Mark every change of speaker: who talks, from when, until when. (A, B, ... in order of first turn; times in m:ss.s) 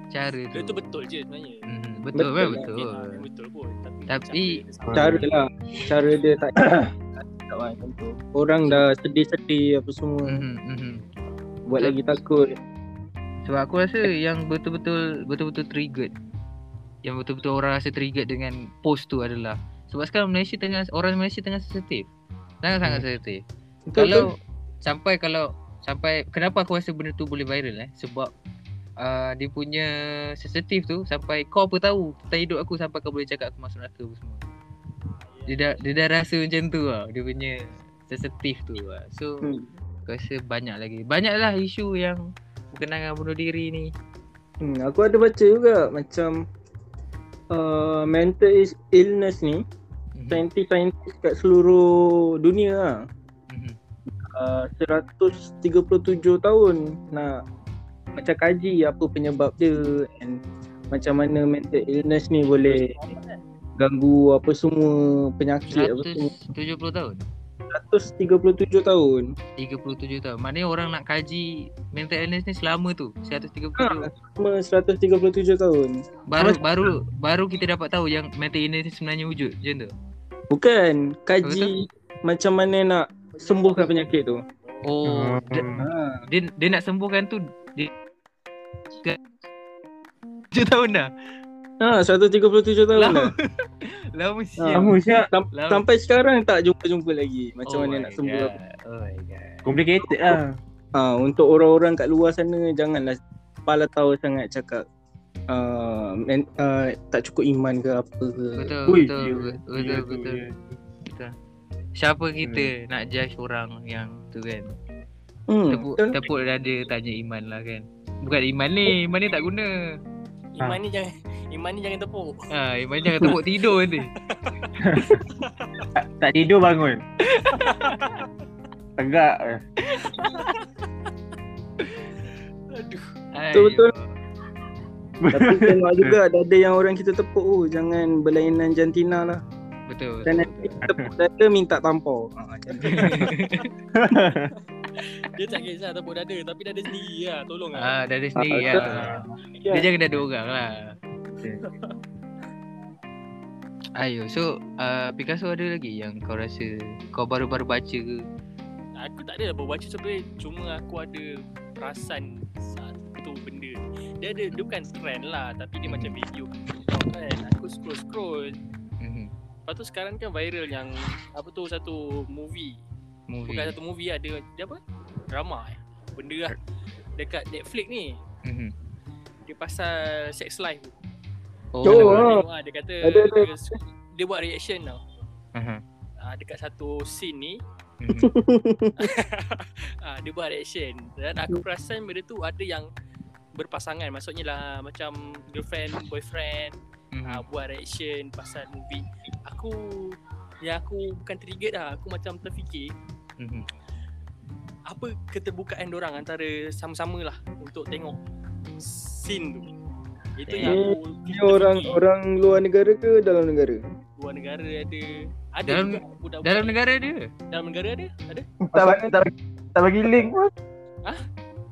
0:00.1-0:00.8 A
0:00.5-0:01.7 B
0:01.7-0:03.2 A
0:02.2-0:02.7 C
0:02.6-0:05.4 B
0:04.1-0:05.3 A
0:04.9-0:05.2 D
0:05.0-0:10.4 C
0:06.6-0:06.9 D
0:10.3-0:11.0 A
0:11.7-0:12.5 C
0:13.4-0:16.1 A
0:17.0-0:22.1 A
0:22.6-0:23.4 A
0:23.9-0:24.3 C
0:24.0-0:28.3 A
0:29.0-0:34.4 A
0:35.2-0:35.8 B
0:35.5-0:39.5 A
0:39.4-0:39.7 C
0:40.1-0:43.9 A
0:44.6-0:46.4 C
0:47.5-0:49.6 C
0:50.2-0:50.4 A
0:50.3-0:53.0 C
0:53.5-0:53.8 A
0:54.3-0:57.4 C
0:58.2-1:00.4 C
1:00.9-1:03.0 C
1:02.4-1:03.4 B
1:03.8-1:06.3 C
1:05.7-1:07.2 A
1:07.7-1:09.3 C
1:09.6-1:14.1 A
1:13.8-1:16.0 C
1:16.3-1:19.9 A
1:16.4-1:16.9 D
1:20.5-1:24.4 C
1:21.4-1:21.7 A
1:23.5-1:23.9 B
1:24.6-1:25.0 B
1:24.8-1:25.7 A
1:25.0-1:25.9 D
1:25.7-1:26.2 C
1:26.3-1:27.9 A
1:30.5-1:31.1 A
1:31.8-1:33.3 C
1:33.0-1:34.9 A
1:34.6-1:38.5 C
1:34.7-1:35.3 D
1:35.5-1:35.8 A
1:37.7-1:39.7 A
1:39.6-1:40.6 D
1:41.0-1:44.8 C
1:45.5-1:48.7 C
1:48.6-1:50.4 A
1:48.9-1:50.8 D
1:51.1-1:51.3 A
1:52.0-1:54.7 A
1:52.4-1:52.7 D
1:55.5-1:56.2 C
1:55.7-1:59.7 A
2:00.6-2:02.5 B
2:02.5-2:04.1 A
2:03.8-2:05.9 B
2:04.8-2:05.2 D
2:06.0-2:07.0 D
2:07.3-2:07.9 A
2:07.4-2:08.3 B
2:09.0-2:09.6 D
2:09.9-2:10.5 A
2:10.0-2:10.9 B
2:12.2-2:13.1 B
2:13.4-2:14.2 A
2:13.5-2:13.9 C
2:15.2-2:16.2 D
2:15.3-2:19.4 C
2:19.9-2:20.9 A
2:20.3-2:23.4 C
2:20.9-2:21.1 D
2:22.8-2:23.7 A
2:23.9-2:24.5 D
2:25.0-2:28.0 B
2:27.8-2:30.9 A
2:28.4-2:29.9 C
2:28.7-2:29.1 B
2:28.8-2:29.1 D
2:31.6-2:32.0 B
2:34.0-2:38.2 A
2:39.0-2:48.6 B
2:45.9-2:46.2 A
2:49.0-2:49.3 A
2:49.7-2:52.8 B
2:53.3-2:53.7 A
2:53.5-2:54.8 B
2:55.3-2:56.6 B
2:57.2-2:58.2 B
2:58.4-2:58.7 A
2:59.5-3:00.9 B
3:01.7-3:02.3 A
3:01.8-3:02.4 C
3:01.8-3:05.0 B
3:03.0-3:03.5 C
3:05.6-3:05.8 A
3:06.2-3:07.6 B
3:08.0-3:08.3 A
3:08.2-3:09.1 C
3:09.0-3:12.9 B
3:13.6-3:22.9 B
3:17.1-3:17.4 A
3:23.4-3:23.7 A
3:24.9-3:28.2 B
3:28.8-3:29.7 B
3:30.4-3:32.0 B
3:30.5-3:30.8 A
3:30.6-3:33.8 C
3:34.2-3:36.8 B
3:35.7-3:37.3 A
3:37.5-3:38.5 B
3:38.7-3:40.5 D
3:38.7-3:39.2 C